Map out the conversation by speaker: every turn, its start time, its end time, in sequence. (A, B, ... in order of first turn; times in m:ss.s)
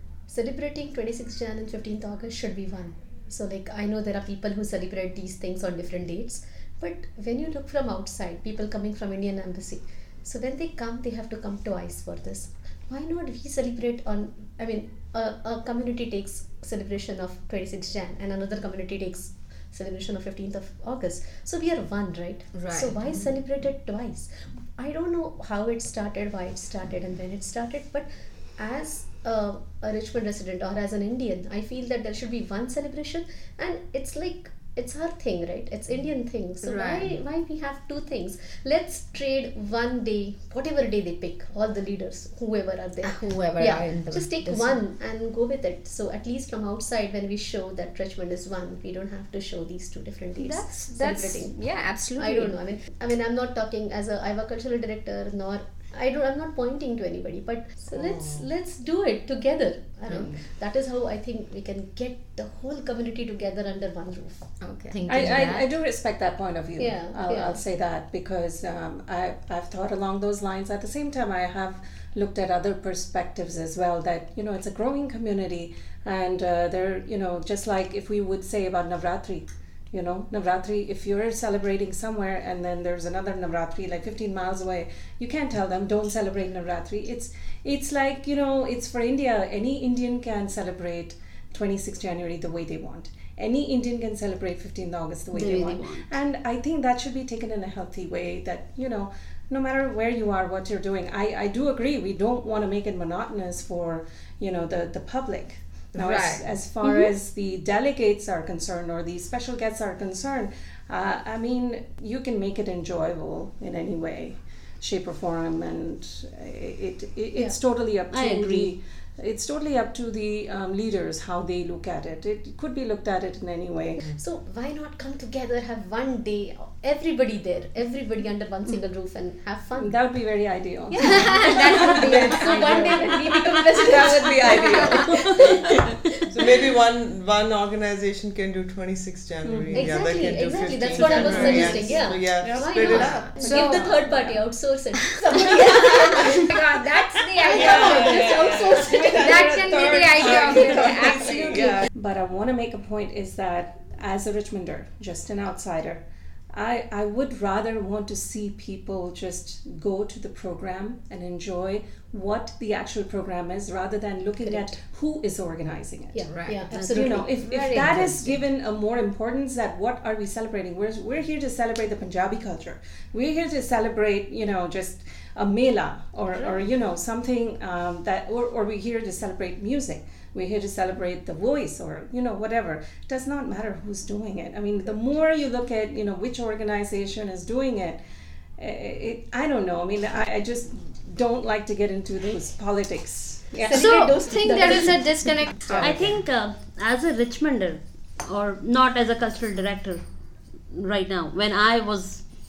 0:00.3-0:51.6 A
0:22.5-0:23.2 B
0:36.6-0:37.1 B
0:43.0-0:44.8 B
0:50.4-0:52.6 B
0:52.2-1:04.4 A
0:57.9-0:58.4 C
1:00.1-1:00.4 B
1:04.6-1:05.7 B
1:05.1-2:04.0 D
1:06.8-1:07.6 A
1:35.4-1:36.0 E
1:35.6-1:35.8 B
1:45.9-1:46.4 B
1:58.1-1:58.7 E
2:04.1-2:10.0 A
2:09.8-2:13.2 D
2:10.9-2:15.8 A
2:11.0-2:13.8 B
2:13.7-2:15.7 D
2:14.5-2:14.8 B
2:15.1-2:15.5 E
2:16.3-2:23.3 C
2:19.4-2:19.9 D
2:19.7-2:24.0 B
2:19.8-2:26.6 A
2:21.3-2:21.6 D
2:22.4-2:23.7 D
2:23.6-2:24.0 E
2:25.7-2:31.8 B
2:27.4-2:29.5 A
2:27.4-2:36.0 D
2:36.5-2:46.2 D
2:46.1-2:48.0 A
2:46.2-2:48.4 B
2:46.7-2:47.0 E
2:46.9-3:08.0 D
3:08.6-3:13.9 D
3:13.6-3:15.0 A
3:13.7-3:16.0 B
3:15.8-3:20.0 E
3:20.7-3:22.2 E